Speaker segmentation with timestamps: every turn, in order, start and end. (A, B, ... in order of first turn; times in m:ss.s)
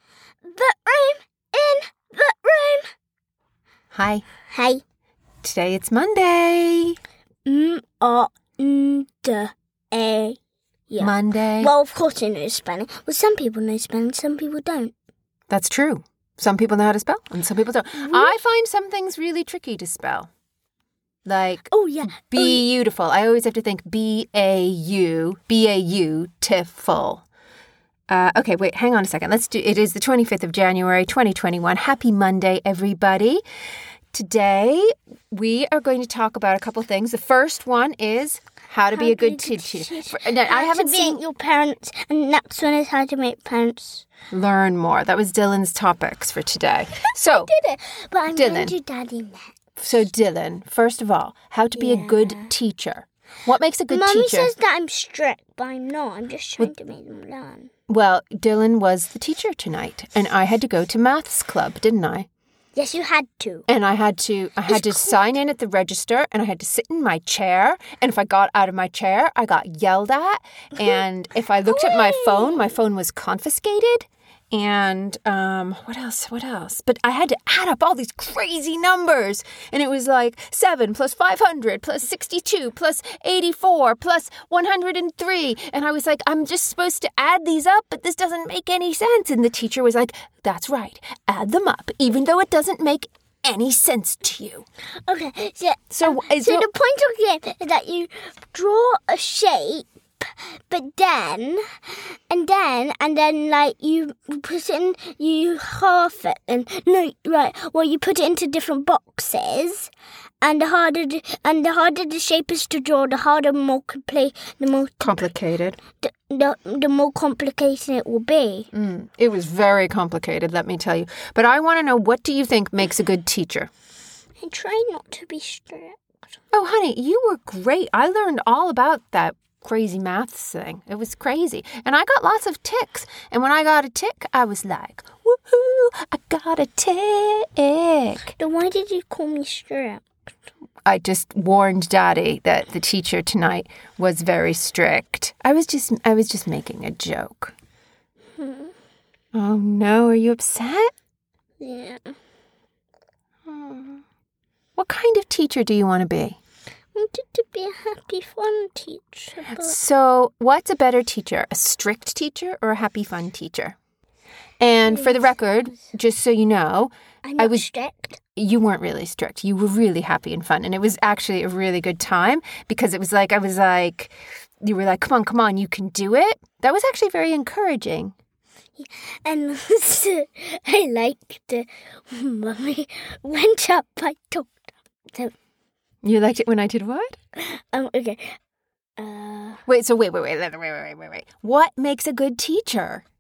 0:00.4-0:02.8 A
0:03.9-0:04.2 B
0:04.5-0:04.8 A
0:05.4-0:07.0 B
0:07.4-0:10.4 A
0:10.9-0:14.9 A
0:11.0-0:11.7 B
0:15.5-0:20.3 B
0:18.0-0:18.4 A
0:21.2-0:27.2 B
0:21.7-0:22.6 A
0:28.1-0:33.4 B
0:34.1-0:41.2 B
0:38.9-0:44.1 A
0:44.3-0:47.5 B
0:47.1-0:49.6 A
0:48.4-0:48.7 B
0:49.8-0:54.5 B
0:51.8-0:52.5 A
0:53.9-0:57.7 A
0:57.9-1:02.3 B
1:02.7-1:03.6 A
1:03.7-1:34.6 B
1:04.7-1:05.4 A
1:11.7-1:12.7 A
1:35.0-1:49.9 A
1:35.9-1:36.7 B
1:50.4-1:55.3 A
1:55.0-1:55.8 B
1:56.0-1:58.7 A
1:58.7-2:03.7 B
2:04.4-2:06.0 A
2:06.5-2:18.3 B
2:18.2-2:20.0 A
2:20.8-2:27.5 B
2:28.4-2:28.7 A
2:29.3-2:30.9 B
2:31.6-2:32.1 A
2:33.4-2:34.0 B
2:34.8-2:36.4 B
2:36.9-2:39.8 A
2:39.6-2:43.8 B
2:44.6-2:47.6 B
2:44.9-2:45.3 A
2:47.2-2:48.2 A
2:48.4-2:58.1 B
2:58.8-3:04.5 A
3:05.1-3:05.3 A
3:06.0-3:07.2 B
3:07.4-3:08.4 A
3:09.0-3:09.6 A
3:09.7-3:13.0 B